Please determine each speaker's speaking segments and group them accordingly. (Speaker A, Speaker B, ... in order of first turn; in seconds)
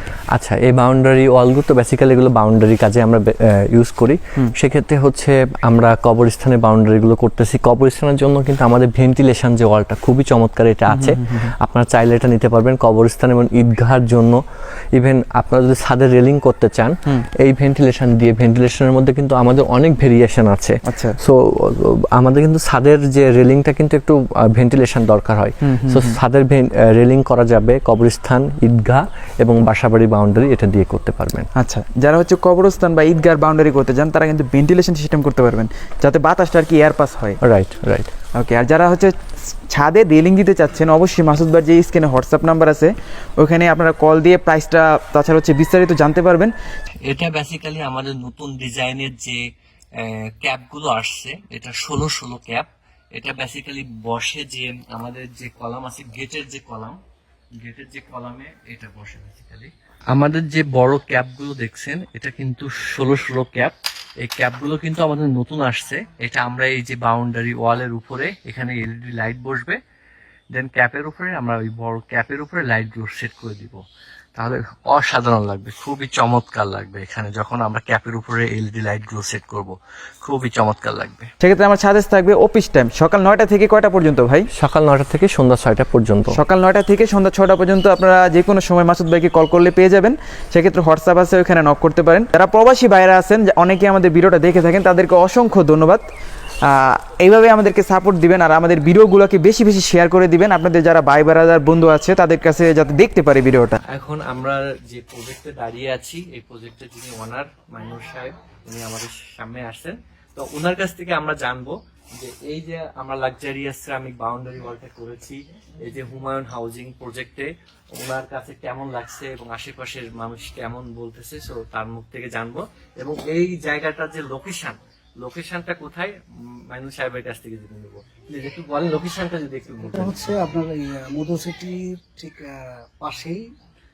Speaker A: 0.3-14.4, 14.9-31.5, 37.4-38.1, 47.0-57.0, 57.6-69.8, 70.5-73.8, 74.3-81.3, 84.5-86.4, 103.8-130.2
Speaker B: 10.9-11.5, 20.8-21.2, 25.6-26.2, 31.6-37.4, 38.4-46.5, 81.4-84.5, 86.3-96.0, 96.6-103.8
Speaker C: 129.8-133.5